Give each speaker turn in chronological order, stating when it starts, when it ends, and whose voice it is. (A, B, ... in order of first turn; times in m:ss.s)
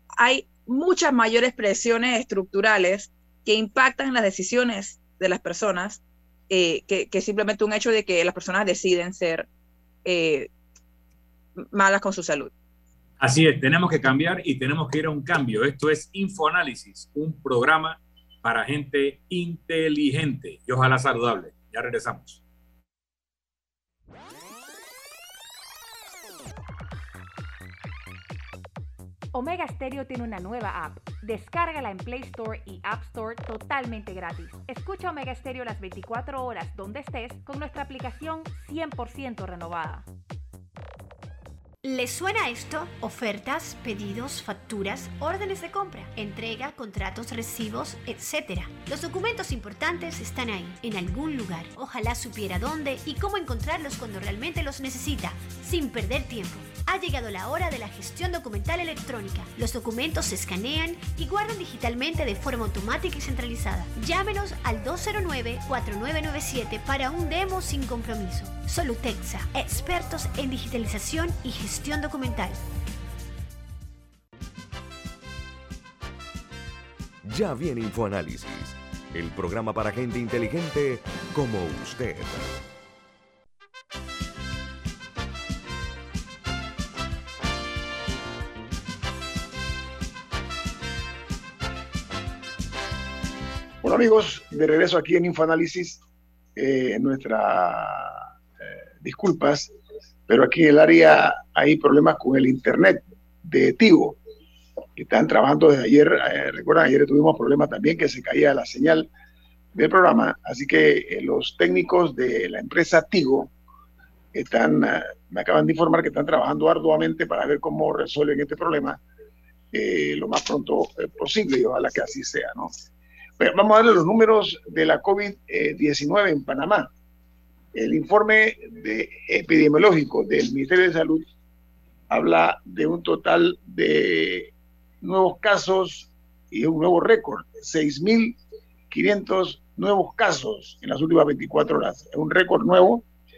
0:00.2-0:09.5 A
0:10.0-0:10.5 A
0:11.7-0:12.5 A
0:13.2-0:22.4 B
0:29.3-0:40.0 C
0:41.8-1:12.6 D
1:17.2-1:22.4 E
1:33.8-1:36.0 F
1:36.6-1:39.7 F
1:40.3-1:44.2 F
1:45.0-1:49.1 F
1:49.7-1:53.5 F
1:54.3-1:59.0 F
1:59.7-2:02.7 F
2:03.4-2:06.9 F
2:07.7-2:11.2 F
2:12.1-2:18.4 F
2:18.9-2:23.0 F